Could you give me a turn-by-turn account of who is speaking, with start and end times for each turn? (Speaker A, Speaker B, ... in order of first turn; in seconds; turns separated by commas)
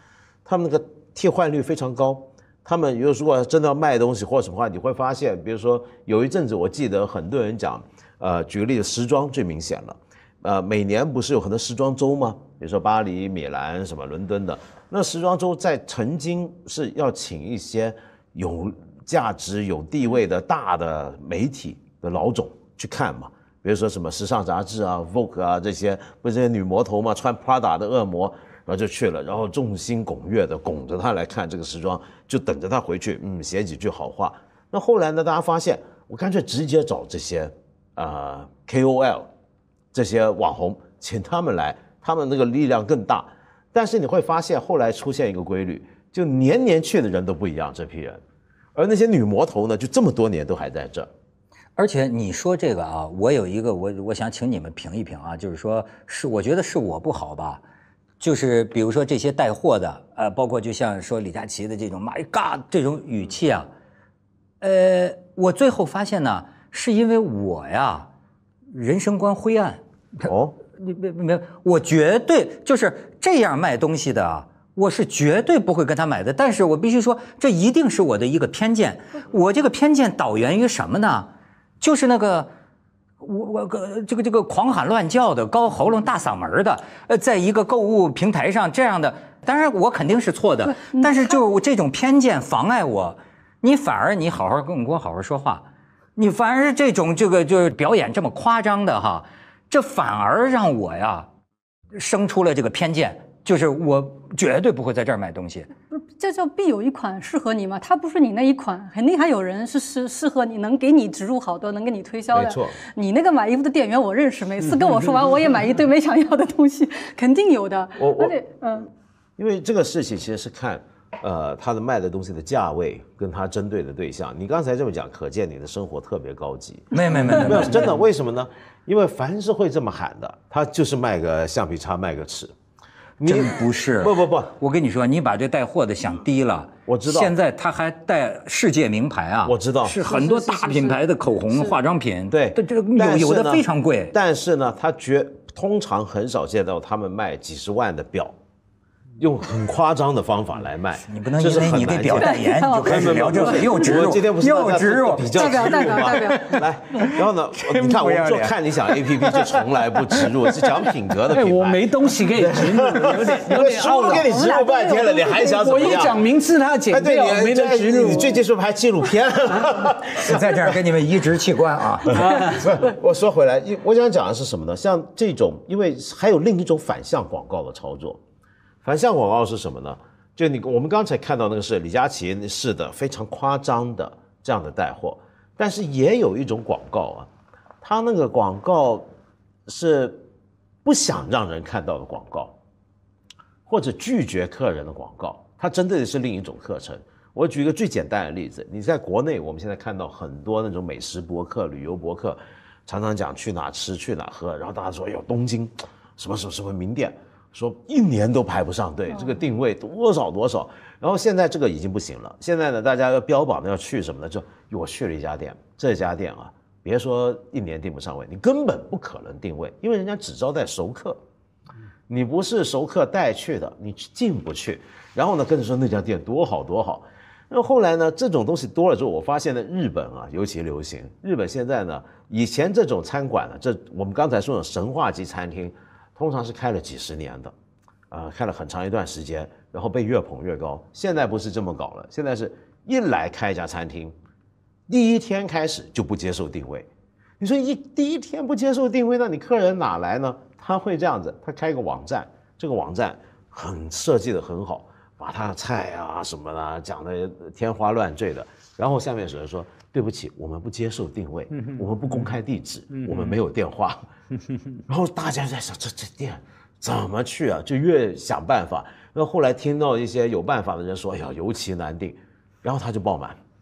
Speaker A: 0.5-39.3, Speaker A: 39.9-48.2, Speaker A: 48.8-51.1, Speaker B: 51.8-57.6, Speaker B: 58.2-63.7, Speaker B: 64.6-68.1, Speaker B: 68.7-81.3, Speaker A: 70.3-70.5, Speaker B: 81.8-82.5, Speaker B: 83.2-101.3, Speaker C: 90.7-91.4, Speaker B: 101.9-105.7, Speaker C: 105.9-118.9, Speaker A: 112.3-112.8, Speaker A: 118.0-118.3, Speaker A: 119.4-132.5, Speaker B: 126.9-127.9, Speaker A: 133.2-134.5, Speaker B: 133.2-144.2, Speaker A: 136.9-137.3, Speaker A: 139.4-140.0, Speaker C: 140.1-141.0, Speaker A: 142.3-148.3, Speaker A: 149.2-166.2, Speaker B: 151.1-160.3, Speaker C: 152.2-154.1, Speaker C: 155.3-157.0, Speaker D: 161.3-164.3, Speaker C: 163.7-166.1, Speaker D: 165.2-168.4, Speaker A: 166.9-170.8, Speaker B: 170.2-172.4, Speaker A: 172.1-178.2, Speaker A: 178.8-187.3, Speaker A: 187.8-189.1, Speaker A: 189.7-190.2, Speaker A: 190.8-192.5, Speaker A: 193.7-221.2, Speaker A: 222.1-237.5, Speaker A: 238.1-244.2, Speaker A: 244.9-246.9, Speaker A: 247.4-264.0, Speaker A: 264.9-273.4